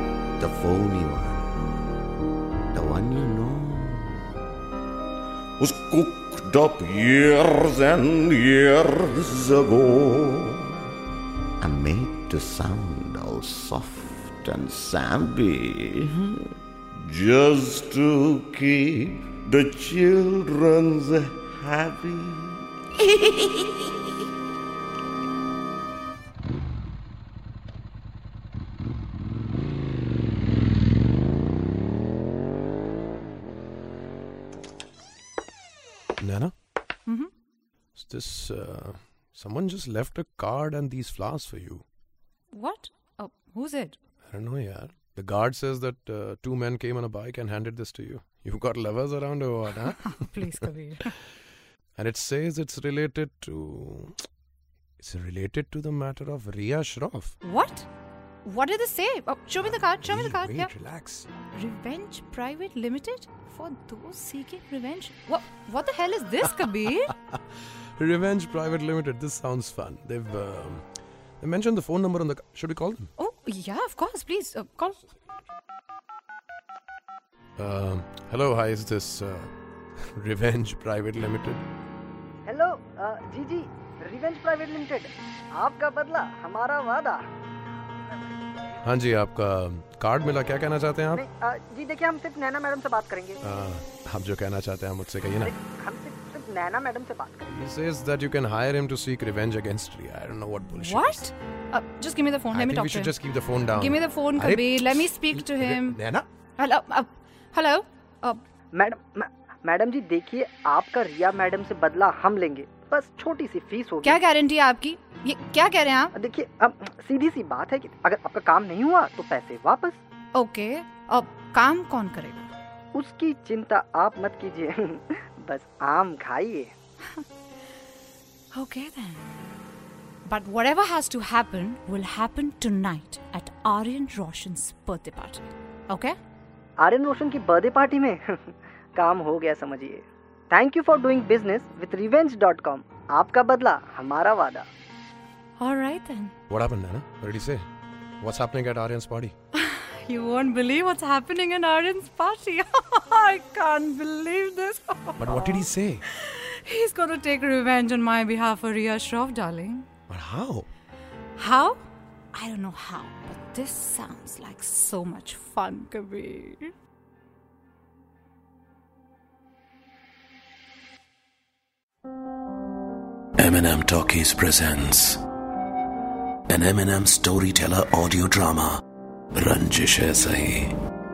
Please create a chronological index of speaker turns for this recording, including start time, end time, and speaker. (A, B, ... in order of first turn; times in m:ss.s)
0:00.4-0:01.6 A
0:02.7-0:04.3 A
0:05.6-0:10.8 A
0:11.6-0:16.4 A
0:17.0-0:23.7 A
0:36.2-0:36.5 B
0:37.1-0:37.3 C
0:38.0-0:41.8 B
0:42.5-0:44.0 C
0:44.2-0:50.3 B
0:50.1-0:51.1 C
0:52.0-0:54.2 B
0:55.0-0:57.4 B
0:57.4-0:57.9 C
0:58.4-1:00.7 C
1:00.0-1:01.3 B
1:01.5-1:07.1 C
1:08.0-1:10.8 B
1:11.4-1:13.1 B
1:13.2-1:15.0 C
1:17.6-1:19.5 B
1:20.2-1:21.6 B
1:22.5-1:27.2 D
1:28.8-1:31.2 B
1:31.1-1:33.4 D
1:33.4-1:35.5 B
1:35.4-1:37.6 D
1:37.5-1:41.2 B
1:40.7-1:43.1 C
1:42.5-1:46.3 B
1:43.7-1:46.0 C
1:46.6-1:48.4 C
1:48.7-1:54.2 D
1:54.0-1:56.1 C
1:56.2-2:00.0 D
2:00.4-2:02.5 C
2:02.9-2:06.7 D
2:08.5-2:09.4 C
2:10.3-2:16.2 C
2:16.8-2:24.7 D
2:25.6-2:26.3 C
2:26.5-2:27.7 B
2:28.2-2:29.3 B
2:29.6-2:39.9 C
2:35.2-2:36.0 B
2:40.1-2:40.7 B
2:41.4-2:41.8 C
2:42.3-2:46.7 C
2:53.4-2:55.2 E
2:56.5-2:58.8 E
2:59.4-3:00.8 E